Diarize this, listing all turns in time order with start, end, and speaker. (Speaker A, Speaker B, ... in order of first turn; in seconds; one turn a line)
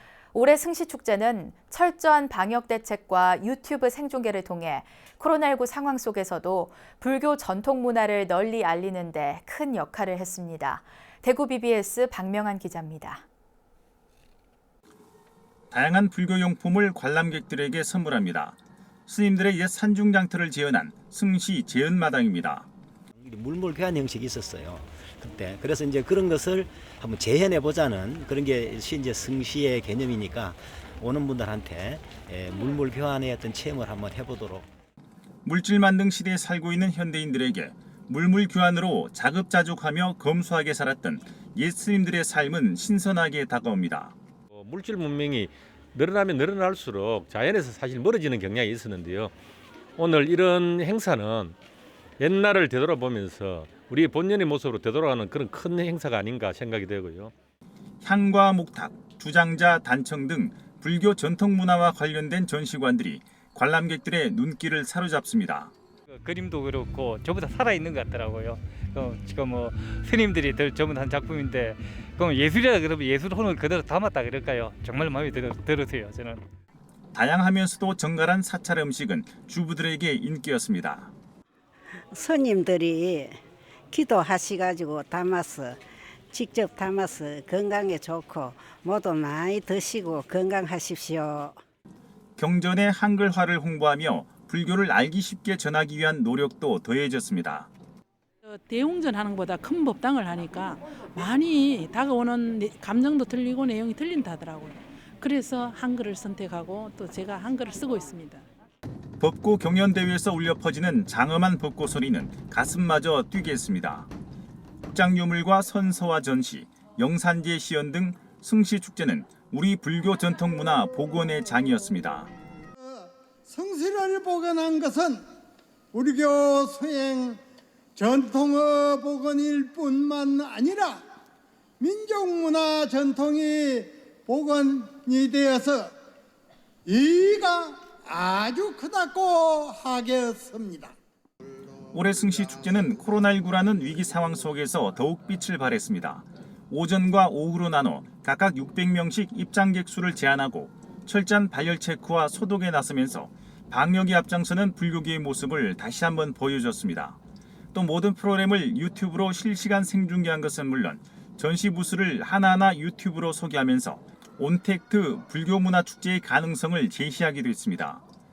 Speaker A: 0.3-13.2
Speaker B: 15.7-22.7
Speaker C: 23.1-34.7
Speaker B: 35.5-44.1
Speaker D: 44.5-49.3
Speaker D: 50.0-51.6
Speaker D: 52.2-57.3
Speaker B: 58.0-65.7
Speaker E: 66.1-76.4
Speaker B: 77.1-81.1
Speaker F: 82.1-83.4
Speaker F: 83.9-91.6
Speaker B: 92.4-97.7
Speaker G: 98.5-108.4
Speaker B: 109.2-114.1
Speaker B: 114.9-122.3
Speaker H: 122.8-125.2
Speaker H: 125.9-127.4
Speaker H: 128.0-131.0
Speaker H: 131.8-135.9
Speaker H: 136.9-140.9
Speaker B: 141.9-157.2
Speaker B: 157.7-168.0